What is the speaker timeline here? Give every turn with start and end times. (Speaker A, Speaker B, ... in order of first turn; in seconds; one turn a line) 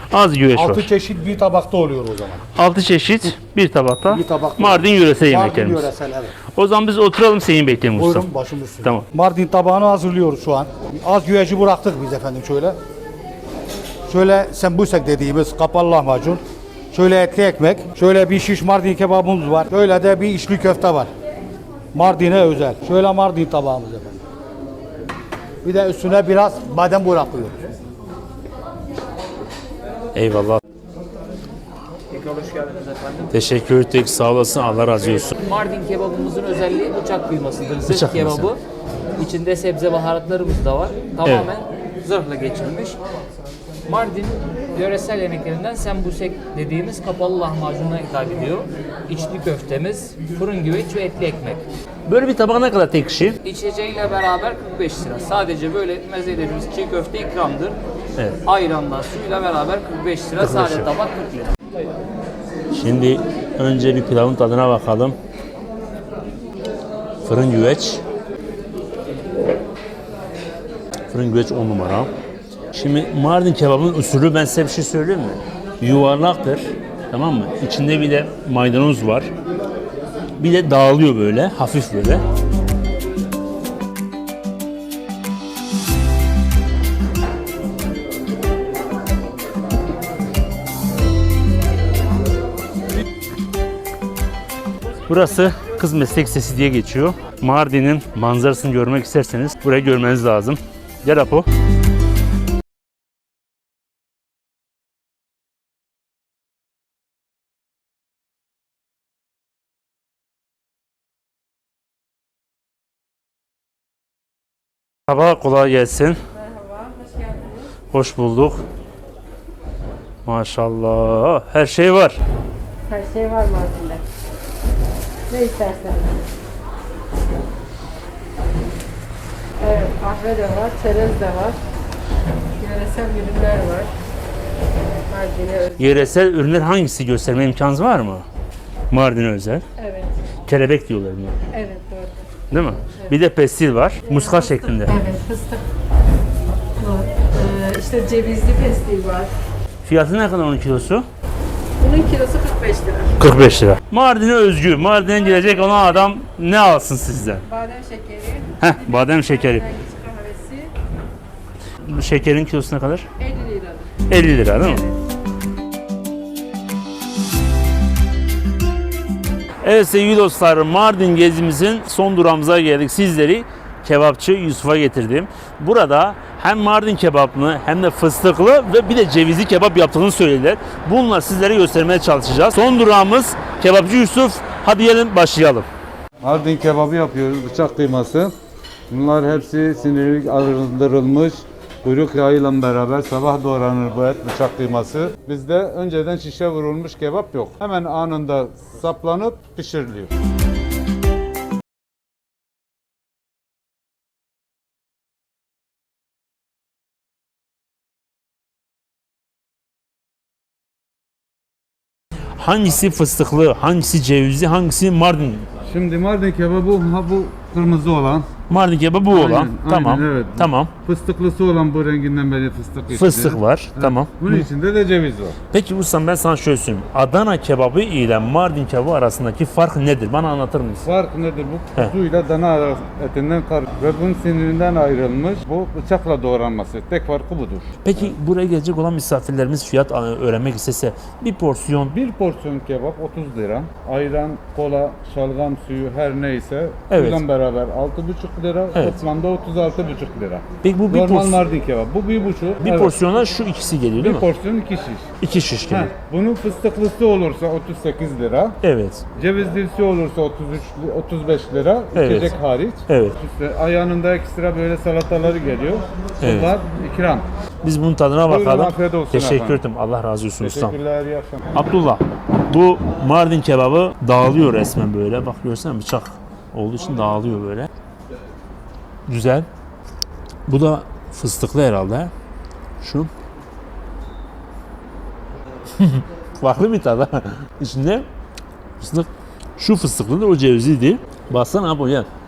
Speaker A: 0.1-0.9
Speaker B: 0.5-2.4
Speaker A: 2.5-5.9
Speaker B: 4.1-6.3
Speaker A: 6.5-8.3
Speaker B: 8.0-12.8
Speaker B: 14.1-16.4
Speaker B: 16.9-21.1
Speaker B: 21.9-24.2
Speaker B: 25.6-27.6
Speaker A: 30.1-30.6
Speaker C: 32.1-33.3
Speaker A: 33.3-35.3
Speaker C: 35.3-38.6
Speaker A: 37.9-38.5
Speaker C: 39.2-43.0
Speaker C: 43.9-51.6
Speaker A: 52.1-53.4
Speaker C: 53.4-57.8
Speaker C: 58.4-61.5
Speaker A: 60.4-60.9
Speaker A: 62.7-65.2
Speaker A: 67.2-68.0
Speaker A: 71.1-72.1
Speaker A: 72.7-79.3
Speaker A: 80.4-82.2
Speaker A: 95.1-101.5
Speaker A: 115.1-116.2
Speaker D: 116.5-117.6
Speaker A: 117.9-118.6
Speaker A: 120.2-122.2
Speaker D: 122.9-124.0
Speaker D: 125.3-126.2
Speaker D: 129.6-131.6
Speaker D: 132.6-133.9
Speaker D: 135.1-135.8
Speaker A: 135.8-138.2
Speaker A: 138.9-139.7
Speaker D: 139.8-140.1
Speaker A: 140.5-141.4
Speaker D: 141.5-142.3
Speaker A: 142.5-145.0
Speaker D: 144.1-145.7
Speaker D: 146.8-149.3
Speaker A: 149.8-151.0
Speaker D: 151.8-153.2
Speaker A: 153.2-157.4
Speaker D: 155.4-155.7
Speaker D: 157.5-160.7
Speaker A: 158.6-159.8
Speaker A: 161.8-163.1
Speaker D: 163.2-163.9
Speaker A: 164.1-164.9
Speaker A: 169.6-185.7
Speaker E: 186.2-188.3
Speaker E: 188.9-200.1
Speaker A: 212.4-215.5
Speaker E: 215.7-218.3
Speaker A: 218.5-220.7
Speaker E: 219.1-225.4
Speaker A: 222.9-224.4
Speaker A: 225.5-230.9
Speaker E: 230.8-238.1
Speaker A: 237.8-241.9
Speaker E: 241.9-253.0
Speaker A: 246.9-247.2
Speaker A: 250.6-251.4
Speaker A: 252.6-254.3
Speaker E: 254.0-255.1
Speaker A: 255.2-255.9
Speaker E: 255.7-258.6
Speaker A: 258.6-259.0
Speaker E: 259.1-267.3
Speaker A: 261.9-262.4
Speaker A: 262.9-263.2
Speaker A: 266.2-266.5
Speaker A: 267.6-270.7
Speaker E: 268.3-269.6
Speaker E: 270.4-271.4
Speaker A: 271.5-277.7
Speaker A: 279.1-279.5
Speaker A: 280.5-282.1
Speaker A: 282.8-283.1
Speaker A: 285.8-288.1
Speaker A: 288.8-292.1